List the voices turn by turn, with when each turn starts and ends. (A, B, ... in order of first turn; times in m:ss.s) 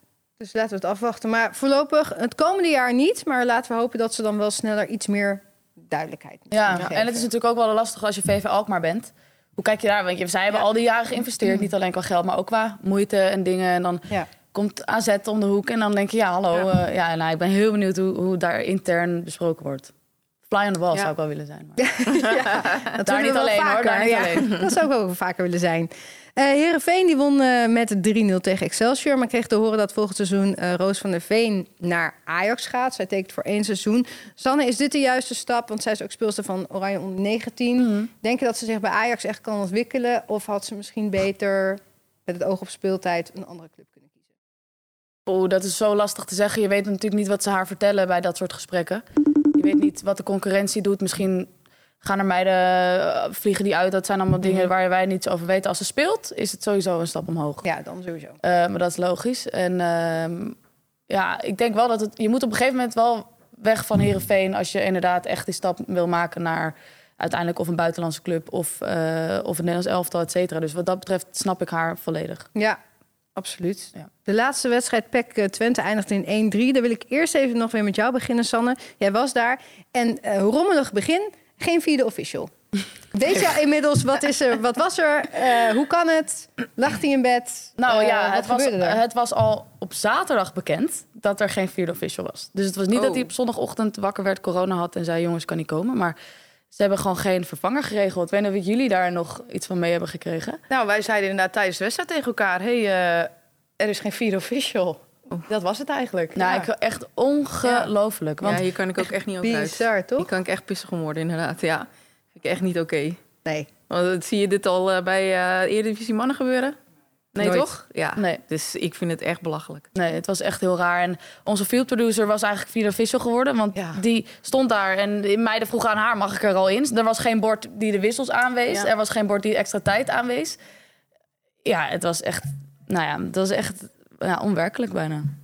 0:00.4-0:07.2 A
0:06.5-0:19.9 B
0:20.5-0:22.4 B
0:21.8-0:44.1 A
0:23.0-0:24.5 B
0:37.8-0:38.1 B
0:45.3-0:51.5 B
0:52.0-0:57.6 B
0:57.6-0:58.4 A
0:58.4-1:00.6 B
1:01.1-1:12.5 B
1:13.4-1:22.5 A
1:23.1-1:29.0 A
1:27.8-1:36.2 B
1:32.9-1:33.3 C
1:36.7-1:40.6 B
1:40.7-1:46.7 D
1:46.4-1:48.7 B
1:48.4-1:53.2 C
1:49.4-1:50.3 A
1:53.9-1:56.8 C
1:57.4-1:59.9 C
1:57.4-1:57.7 A
1:58.2-1:58.4 B
2:00.0-2:10.6 B
2:11.6-2:15.3 B